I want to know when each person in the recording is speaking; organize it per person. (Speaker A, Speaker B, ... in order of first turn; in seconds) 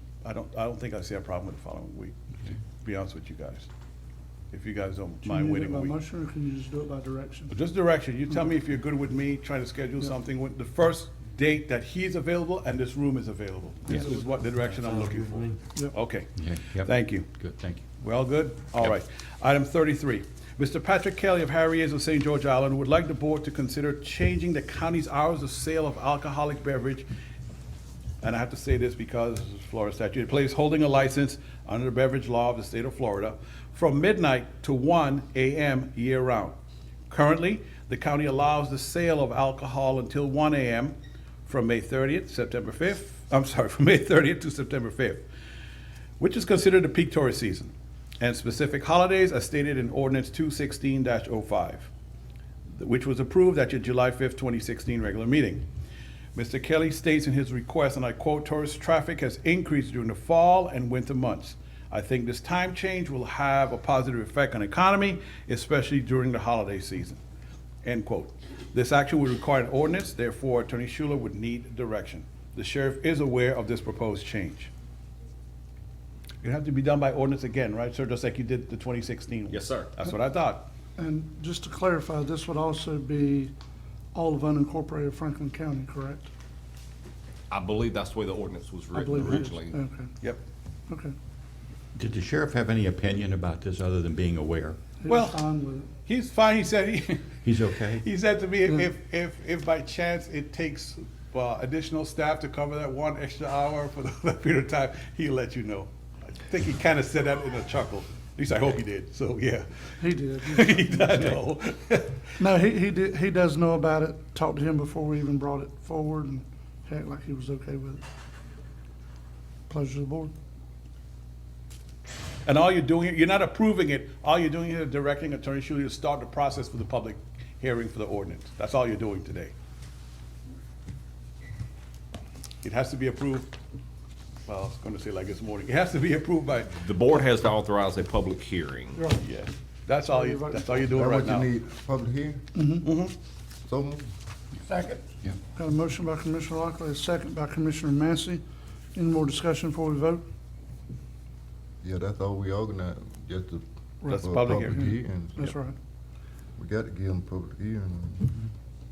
Speaker A: 0.2-2.2, 2.8-3.7, 4.5-6.0, 7.5-17.3, 18.0-27.1, 28.2-36.6, 37.1-41.0, 41.5-45.2, 46.2-51.9, 52.8-55.6, 56.4-67.2, 67.8-74.7, 76.4-80.7, 95.1-95.4, 96.0-97.4, 98.0-112.3, 122.5-129.5, 132.6-133.5, 134.5-136.8, 139.2-141.5, 142.8-143.1, 154.1-154.9
Speaker B: 5.2-7.5, 81.0-83.5, 84.1-86.3, 88.9-90.2, 90.9-91.2, 95.0-95.9, 110.0-111.3, 112.4-118.0, 119.7-120.3, 140.1-140.8, 142.6-142.9, 144.7-145.0, 145.6-148.4, 148.9-150.2, 154.0-155.8
Speaker C: 16.4-17.9, 92.0-94.8, 97.4-98.0
Speaker D: 79.5-79.9, 87.5-89.8, 136.8-139.0
Speaker E: 140.9-142.6, 143.6-144.1, 151.8-155.6, 156.6-158.4